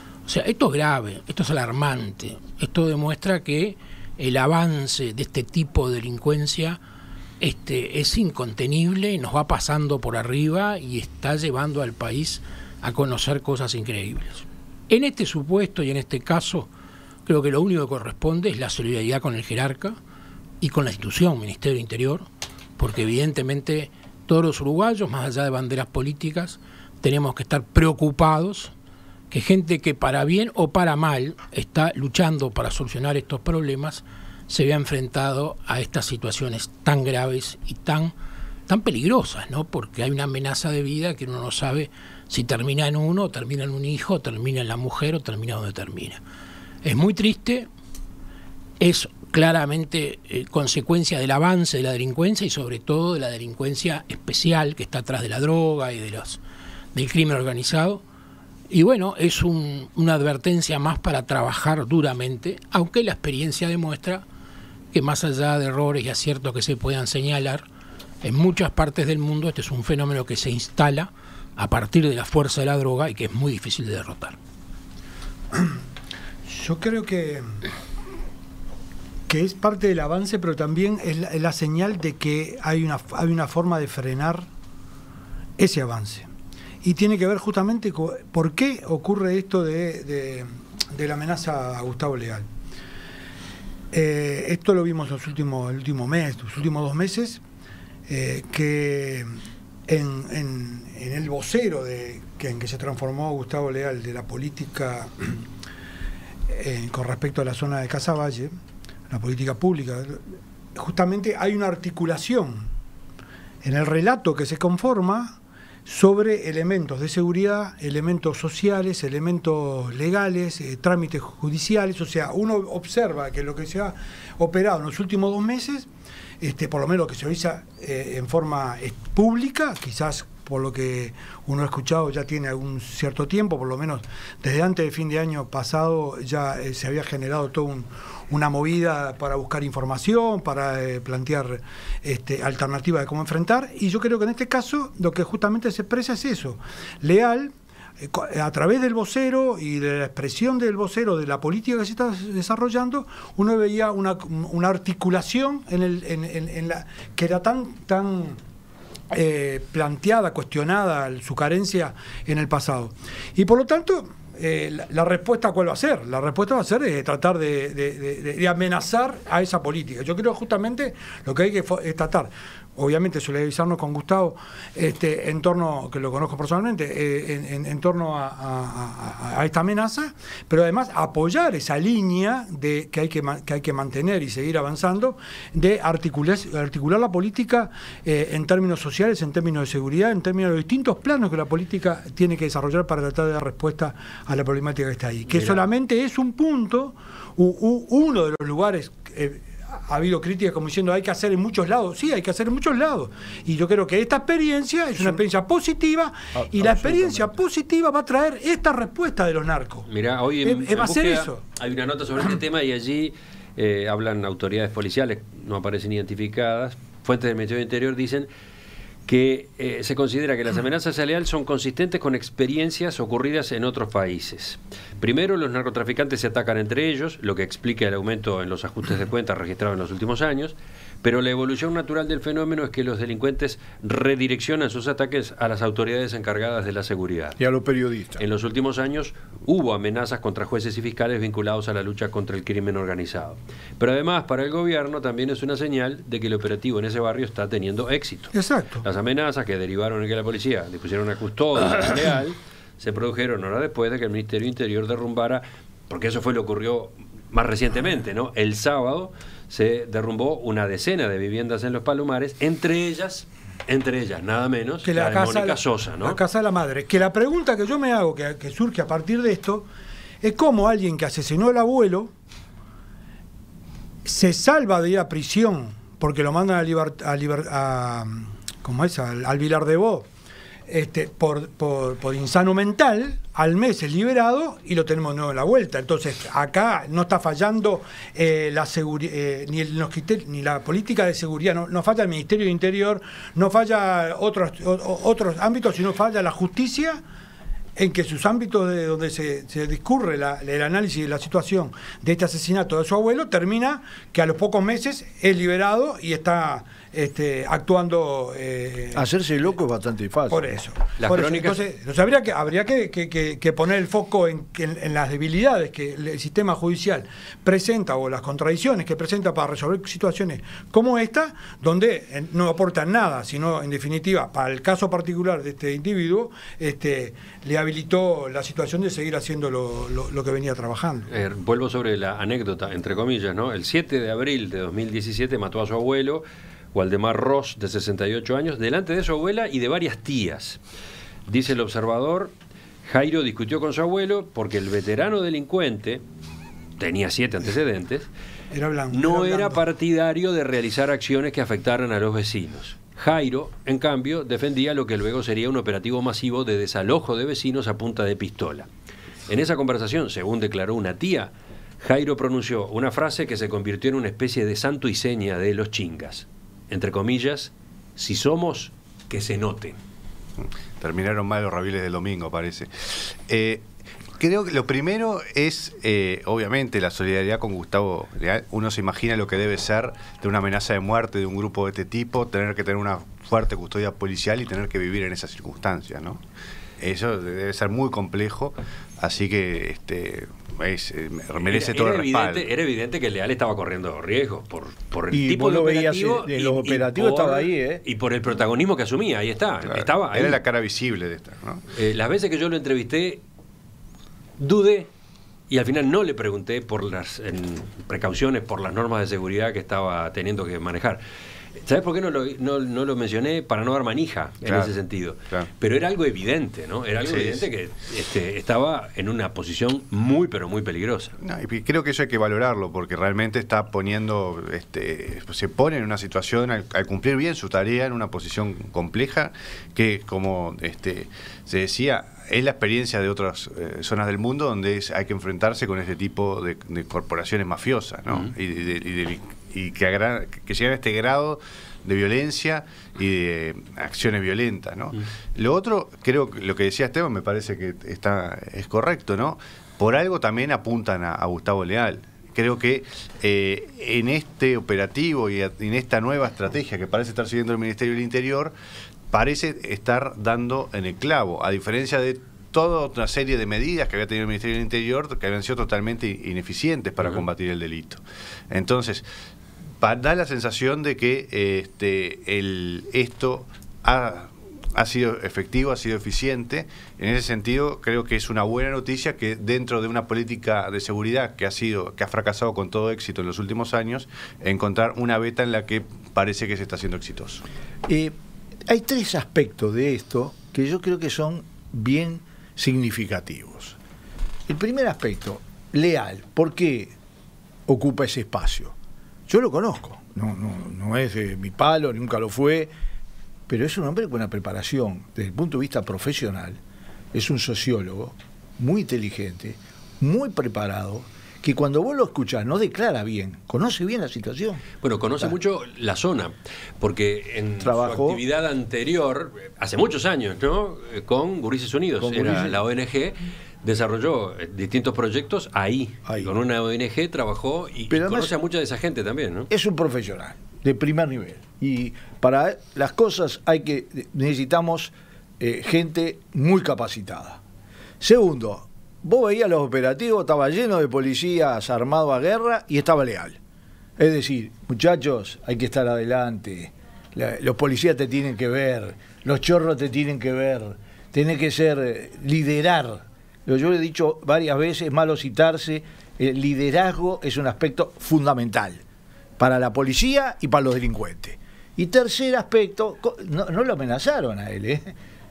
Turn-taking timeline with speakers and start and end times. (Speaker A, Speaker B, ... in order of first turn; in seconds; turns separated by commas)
Speaker A: 0.2-6.8, Speaker A: 7.4-16.7, Speaker A: 17.2-20.0, Speaker A: 20.6-28.7, Speaker A: 29.3-38.1, Speaker A: 38.7-46.2, Speaker A: 46.8-47.7, Speaker A: 48.8-56.4, Speaker A: 56.9-58.0, Speaker A: 58.7-64.2, Speaker A: 64.9-67.6, Speaker A: 68.2-74.4, Speaker B: 76.5-77.4, Speaker B: 79.3-84.5, Speaker B: 85.6-86.3, Speaker B: 86.8-92.4, Speaker B: 93.9-97.4, Speaker B: 98.1-99.2, Speaker B: 99.9-105.3, Speaker B: 106.5-108.5, Speaker B: 109.1-110.2, Speaker B: 110.7-112.7, Speaker B: 113.6-125.9, Speaker B: 126.4-158.4, Speaker B: 159.1-209.9, Speaker C: 206.3-207.4, Speaker D: 209.8-218.3, Speaker B: 210.4-211.4, Speaker D: 219.1-237.4, Speaker C: 237.4-238.2, Speaker D: 238.2-266.2, Speaker B: 248.3-248.8, Speaker B: 264.8-269.7, Speaker B: 270.2-272.1, Speaker B: 274.1-280.1, Speaker B: 280.7-297.0, Speaker B: 297.8-309.1, Speaker C: 308.9-310.4, Speaker B: 310.3-331.1, Speaker D: 311.0-311.6, Speaker D: 331.1-340.6, Speaker D: 341.3-342.3, Speaker D: 342.9-346.0, Speaker D: 346.8-348.1, Speaker B: 348.5-349.6, Speaker D: 348.9-358.7, Speaker D: 359.3-369.8, Speaker E: 370.4-373.6, Speaker E: 374.2-386.2, Speaker E: 386.8-392.5, Speaker D: 391.4-400.4, Speaker C: 395.1-397.8, Speaker E: 399.7-401.6, Speaker D: 401.7-403.2, Speaker D: 404.4-404.9, Speaker D: 405.5-411.0, Speaker D: 411.6-421.1, Speaker E: 414.4-414.7, Speaker E: 417.0-417.5, Speaker E: 421.2-458.5, Speaker E: 459.1-468.0, Speaker E: 468.5-469.0, Speaker E: 469.8-487.4, Speaker C: 487.9-488.1, Speaker C: 488.7-493.8, Speaker C: 494.5-496.9, Speaker C: 497.7-498.7, Speaker C: 499.3-502.7, Speaker C: 503.5-506.6, Speaker C: 507.1-514.6, Speaker D: 514.8-529.5, Speaker C: 517.6-518.2, Speaker C: 522.0-522.6, Speaker C: 526.1-526.3, Speaker C: 527.9-528.3, Speaker C: 529.5-537.4, Speaker C: 538.0-543.4, Speaker C: 544.0-558.8, Speaker C: 559.4-564.9